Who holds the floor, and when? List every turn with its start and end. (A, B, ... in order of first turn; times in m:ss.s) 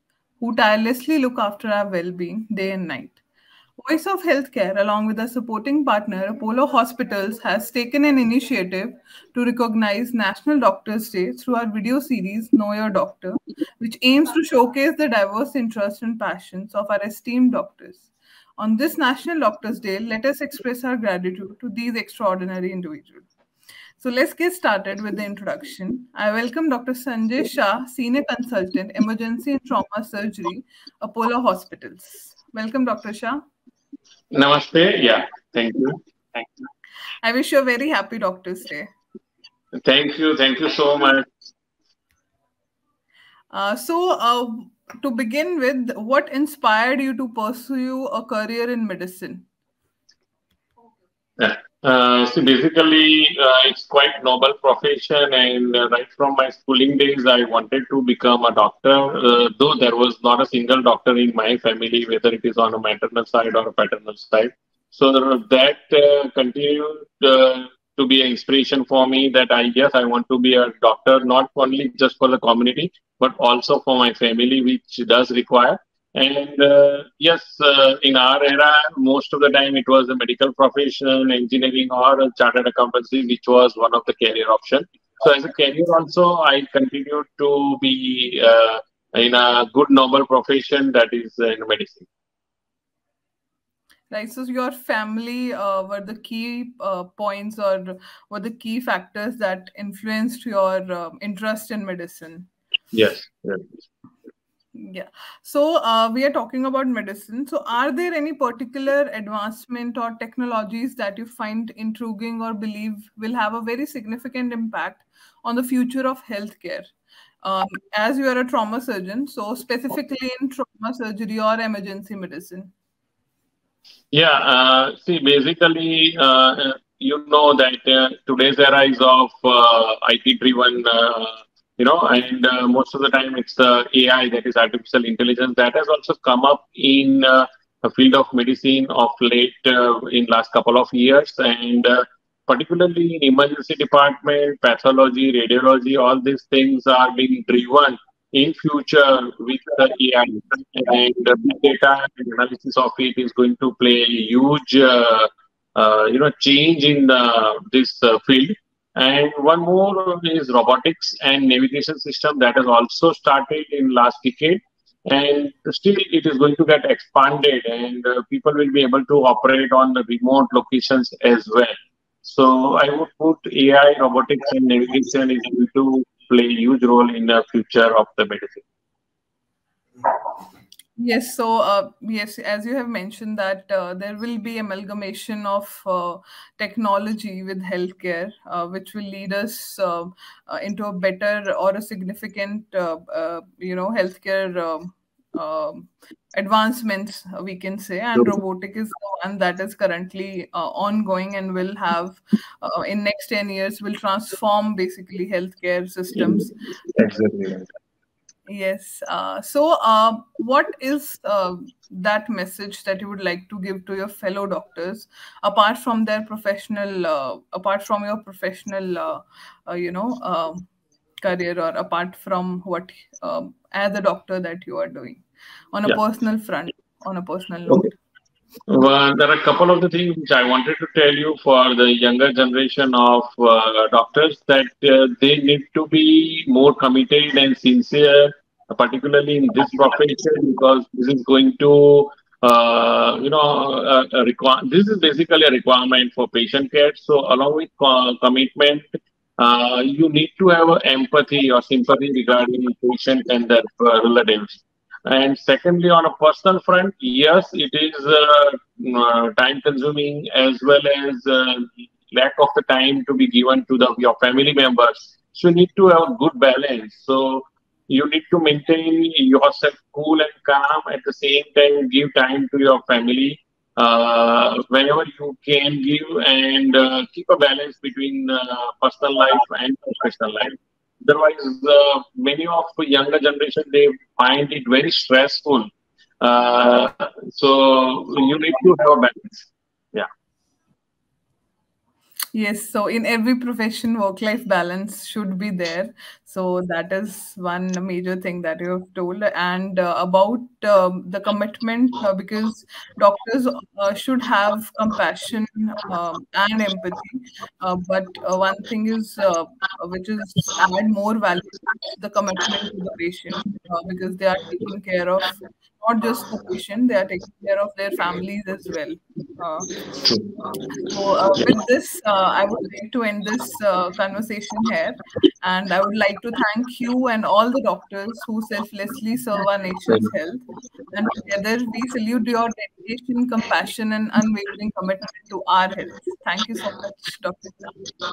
0:00.4-0:03.2 A
0:03.8-0:18.1 A
0:18.6-0:23.3 A
0:24.0-0:33.4 A
0:34.3-0:36.5 B
0:37.2-0:38.9 A
0:39.8-0:41.2 B
0:43.5-0:49.4 A
0:51.4-1:32.1 B
1:34.1-1:42.5 A
1:42.9-1:43.7 B
1:44.7-1:56.9 A
1:57.4-2:02.7 A
2:04.1-2:58.6 B
3:01.0-3:26.6 A
3:26.1-3:27.7 B
3:28.5-3:40.7 A
3:41.2-3:47.9 A
3:48.7-4:45.7 B
4:46.2-4:50.1 B
4:52.3-5:19.7 A
5:20.0-5:20.3 B
5:20.8-5:37.7 A